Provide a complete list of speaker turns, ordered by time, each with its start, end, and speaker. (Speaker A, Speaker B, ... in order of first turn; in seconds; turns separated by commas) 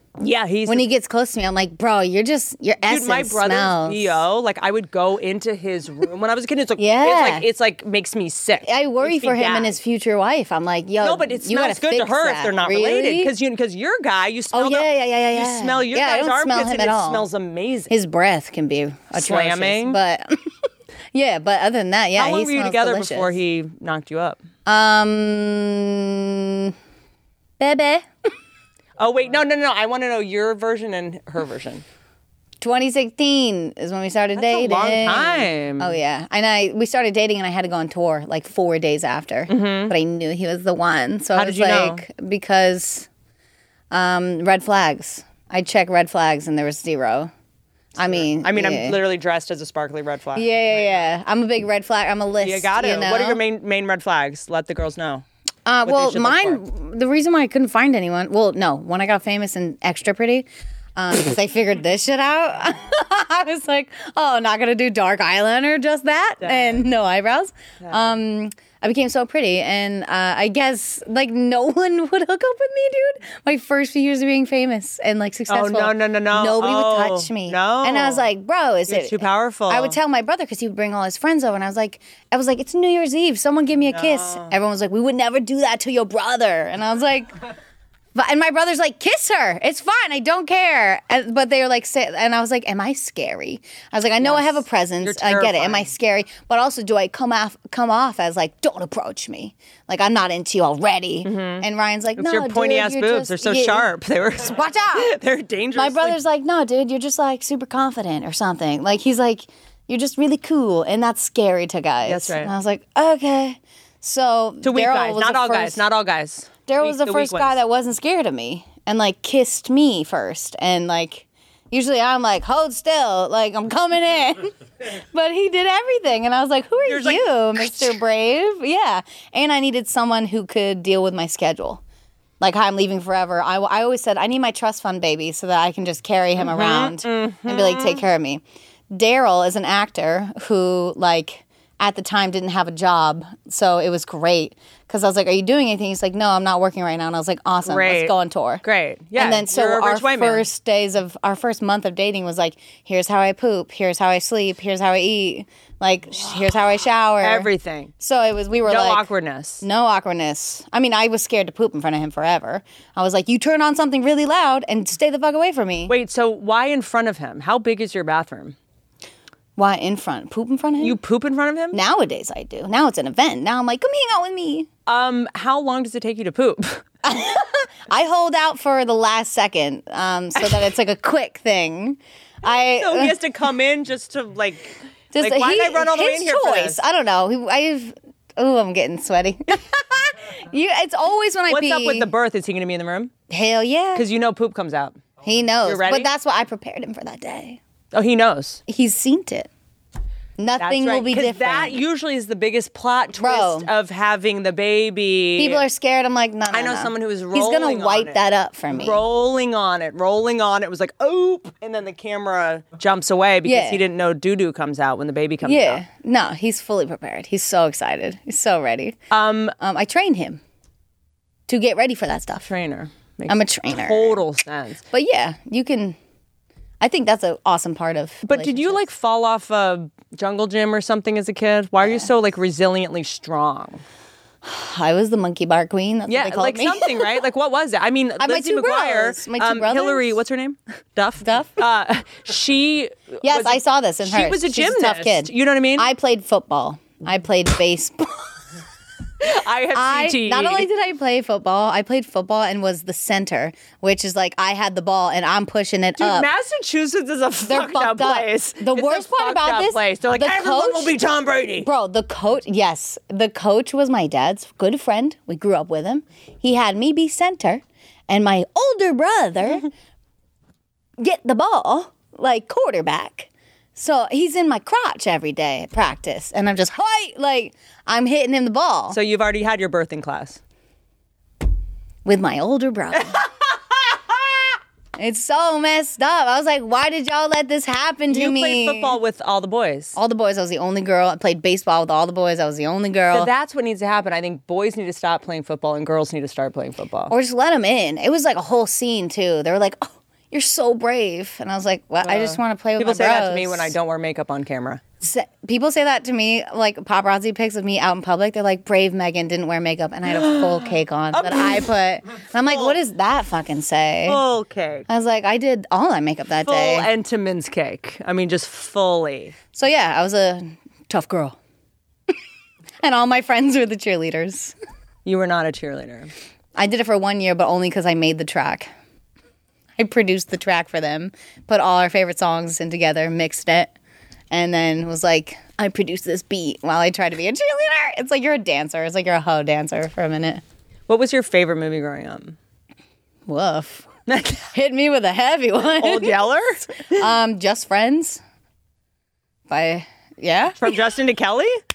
Speaker A: 0.2-0.9, Speaker B: 0.7-4.2, Speaker A: 2.9-9.8, Speaker B: 6.8-7.5, Speaker B: 8.6-13.3, Speaker A: 11.0-17.9, Speaker B: 14.5-17.3, Speaker B: 17.9-20.4, Speaker A: 19.1-20.0, Speaker B: 21.1-23.4, Speaker A: 22.1-24.4, Speaker B: 24.6-26.7, Speaker B: 27.6-28.1, Speaker A: 29.0-31.8, Speaker B: 32.6-43.1, Speaker A: 34.4-36.0, Speaker A: 39.5-39.9, Speaker A: 41.3-42.0, Speaker B: 43.9-47.3, Speaker B: 48.0-49.0, Speaker A: 48.0-50.5, Speaker B: 50.3-53.4, Speaker A: 52.4-55.2, Speaker B: 55.6-87.3, Speaker A: 55.8-56.6, Speaker A: 66.4-66.8, Speaker A: 75.5-78.3, Speaker A: 78.9-80.0, Speaker A: 83.9-84.5, Speaker B: 88.1-103.9, Speaker A: 94.2-95.9, Speaker A: 101.2-101.7, Speaker A: 102.2-106.2, Speaker B: 104.4-105.2, Speaker B: 105.7-115.8, Speaker A: 112.0-112.5, Speaker A: 114.6-117.6, Speaker B: 116.7-131.8, Speaker A: 126.8-128.0, Speaker B: 132.4-148.6, Speaker A: 136.4-138.0, Speaker A: 147.6-150.5, Speaker B: 149.2-159.1, Speaker A: 157.2-157.9, Speaker A: 158.7-159.6, Speaker B: 159.6-165.9, Speaker A: 165.9-168.6, Speaker B: 169.6-171.0, Speaker A: 170.8-171.8, Speaker B: 171.7-174.7, Speaker A: 174.8-176.8, Speaker B: 177.0-183.2, Speaker A: 182.4-186.8, Speaker B: 185.1-192.1, Speaker A: 191.5-193.1, Speaker B: 193.3-194.1, Speaker A: 193.9-195.0, Speaker B: 195.2-197.6, Speaker A: 195.6-196.1, Speaker A: 197.9-198.6, Speaker B: 198.7-199.5, Speaker B: 200.4-201.8, Speaker A: 200.6-205.7, Speaker B: 203.2-203.7, Speaker B: 205.3-209.0, Speaker A: 206.5-215.8, Speaker B: 213.4-213.8, Speaker B: 215.4-219.0, Speaker A: 219.1-219.5, Speaker B: 219.6-220.4, Speaker B: 221.5-222.5, Speaker A: 222.4-224.8, Speaker B: 223.3-224.2, Speaker B: 224.9-226.0, Speaker B: 226.8-228.8, Speaker A: 228.2-233.8, Speaker B: 234.4-237.1, Speaker A: 236.1-245.9, Speaker B: 238.2-240.2, Speaker B: 241.2-241.6, Speaker B: 243.2-248.3, Speaker A: 249.2-250.7, Speaker B: 249.7-256.3, Speaker A: 256.0-261.7, Speaker B: 257.5-261.0, Speaker B: 261.6-269.7, Speaker B: 271.0-279.0, Speaker A: 278.9-280.4, Speaker B: 282.0-283.2, Speaker B: 285.0-289.0, Speaker A: 288.1-290.0, Speaker B: 289.9-293.3, Speaker A: 293.1-297.1, Speaker B: 297.1-303.7, Speaker A: 302.0-304.8, Speaker B: 305.0-314.2, Speaker A: 310.1-311.7, Speaker A: 312.4-312.8, Speaker A: 314.0-314.9, Speaker B: 314.9-316.9, Speaker A: 316.4-319.3, Speaker B: 319.5-321.4, Speaker B: 322.8-324.5, Speaker A: 325.0-326.1, Speaker B: 326.6-328.7, Speaker B: 329.8-333.7, Speaker B: 334.3-340.4, Speaker A: 340.9-342.4, Speaker B: 343.3-346.2, Speaker A: 344.1-344.4, Speaker A: 345.6-347.0, Speaker B: 346.9-348.2, Speaker B: 349.5-350.7, Speaker A: 350.6-351.6